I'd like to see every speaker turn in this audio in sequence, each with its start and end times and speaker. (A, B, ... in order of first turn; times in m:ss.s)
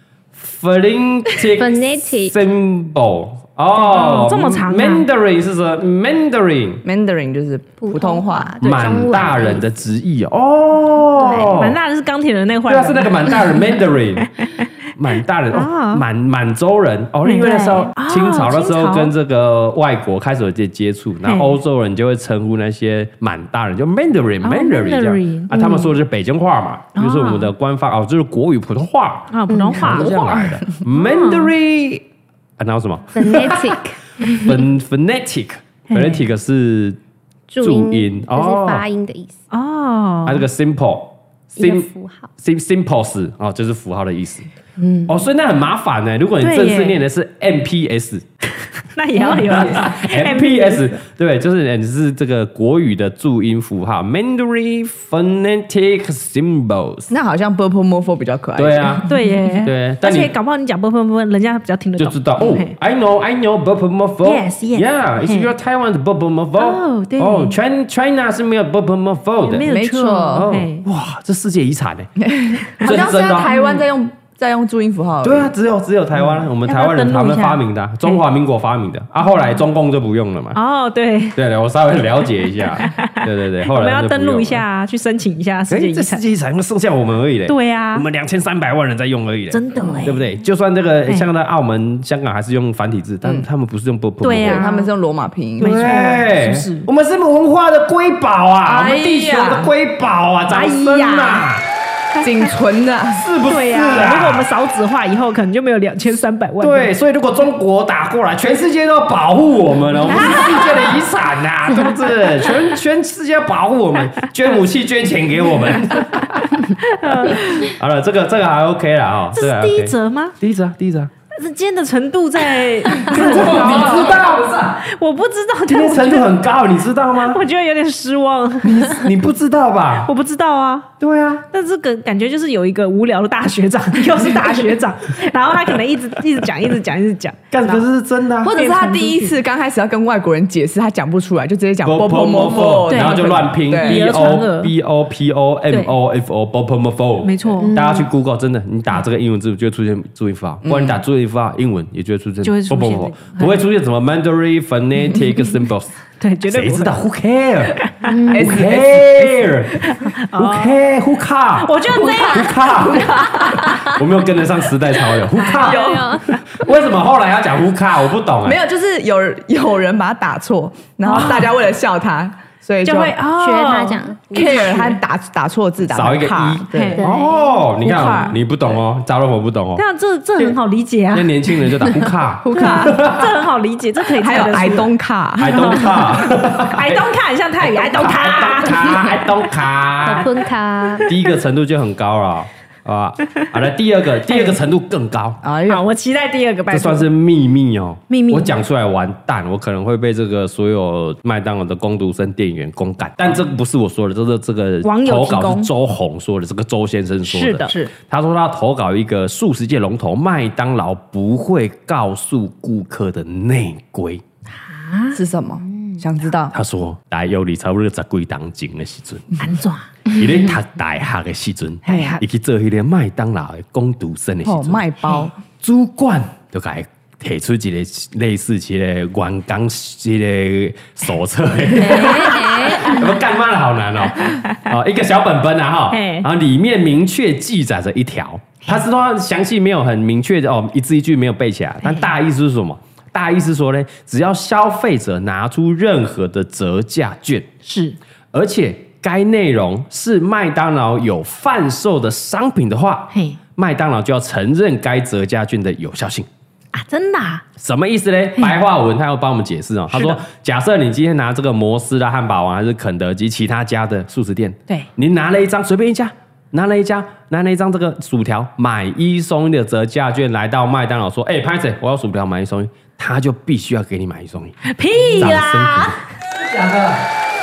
0:00.3-0:06.8 A
0:01.5-0:02.4 B
0:03.8-0:05.0 C
0:06.8-0:08.6 D
0:07.8-0:09.6 B
0:08.6-0:11.8 A
0:11.2-0:11.5 B
0:11.4-0:13.7 C
0:12.7-0:14.3 A
0:14.4-0:14.7 C
0:15.0-0:32.0 A
0:15.5-0:16.0 C
0:17.2-0:19.1 C
0:17.4-0:17.9 B
0:21.2-0:21.6 C
0:24.4-0:25.6 C
0:27.0-0:27.5 C
0:29.3-0:31.5 C
0:29.5-0:30.0 B
0:32.6-0:37.0 A
0:33.2-0:34.0 B
0:35.9-0:36.2 C
0:37.5-0:39.4 B
0:37.6-0:38.8 A
0:39.5-0:40.4 C
0:40.3-0:44.5 A
0:41.6-0:42.3 B
0:45.1-0:48.2 A
0:46.4-0:47.0 C
0:48.6-0:51.0 C
0:49.2-0:57.1 A
0:57.1-0:59.1 D
0:58.6-0:59.1 A
0:59.1-1:02.8 C
0:59.6-1:00.3 A
1:02.0-1:09.7 A
1:04.2-1:05.5 C
1:06.6-1:07.5 C
1:09.4-1:10.9 C
1:09.6-1:10.5 D
1:10.3-1:12.1 A
1:12.2-1:15.5 D
1:12.8-1:13.5 A
1:13.4-1:13.8 C
1:15.2-1:20.6 A
1:16.6-1:18.2 C
1:20.5-1:21.4 C
1:21.4-1:24.6 A
1:22.7-1:26.2 C
1:25.7-1:34.6 A
1:27.5-1:28.0 C
1:29.5-1:30.3 C
1:34.2-1:34.9 C
1:34.4-1:36.1 D
1:35.6-1:36.9 C
1:35.6-1:41.7 A
1:38.6-1:39.7 D
1:40.5-1:41.5 C
1:42.2-1:43.3 D
1:43.1-1:44.5 A
1:43.5-1:46.9 C
1:46.6-1:56.6 A
1:50.1-1:50.8 C
1:56.8-1:57.7 C
1:57.2-2:01.1 A
1:59.3-2:00.4 C
2:01.3-2:04.3 C
2:03.0-2:04.2 A
2:03.1-2:04.8 E
2:04.8-2:06.4 C
2:05.7-2:07.4 A
2:07.2-2:09.1 C
2:08.6-2:10.1 A
2:10.0-2:10.9 C
2:11.0-2:11.4 A
2:11.5-2:17.8 C
2:17.5-2:18.5 A
2:18.4-2:24.0 D
2:18.6-2:19.4 C
2:21.8-2:35.9 A
2:22.9-2:24.7 C
2:27.2-2:27.8 C
2:27.6-2:28.1 B
2:30.6-2:31.0 D
2:32.4-2:33.6 C
2:36.2-2:36.9 C
2:36.5-2:37.8 A
2:38.1-2:38.5 B
2:38.3-2:39.7 D
2:38.3-2:46.0 A
2:39.9-2:40.8 C
2:41.6-2:43.9 C
2:42.2-2:43.8 D
2:45.4-2:45.7 C
2:45.4-2:46.2 D
2:45.6-2:46.3 B
2:46.5-2:48.6 A
2:48.4-2:53.2 D
2:51.1-2:51.5 C
2:52.8-2:54.0 C
2:53.3-2:55.0 B
2:54.3-2:57.0 D
2:55.9-2:59.8 A
2:56.7-2:57.1 C
2:57.0-2:57.3 B
2:57.8-2:58.3 D
2:57.8-2:58.4 C
2:59.8-3:01.4 C
3:01.1-3:03.4 A
3:02.4-3:03.0 D
3:02.5-3:04.9 C
3:04.2-3:06.0 D
3:05.4-3:07.1 A
3:05.4-3:09.2 C
3:07.6-3:10.4 A
3:10.0-3:11.1 B
3:11.0-3:15.4 A
3:14.3-3:14.6 C
3:15.4-3:15.8 D
3:15.7-3:17.1 C
3:16.7-3:34.2 A
3:18.1-3:18.5 C
3:24.8-3:25.7 C
3:27.3-3:27.9 C
3:34.7-3:35.2 C
3:35.1-3:36.6 D
3:36.5-3:39.4 A
3:39.4-3:39.9 C
3:40.1-3:44.8 A
3:41.8-3:42.2 C
3:44.4-3:45.4 D
3:45.5-4:07.5 A
3:51.8-3:53.0 C
3:51.9-3:52.7 B
3:54.2-3:54.6 C
3:55.9-3:56.3 C
4:07.6-4:08.0 C
4:08.3-4:16.3 A
4:13.1-4:13.4 C
4:16.7-4:17.4 C
4:17.6-4:34.6 A
4:19.9-4:20.2 C
4:34.6-4:36.0 C
4:35.1-4:36.0 A
4:36.3-4:37.1 E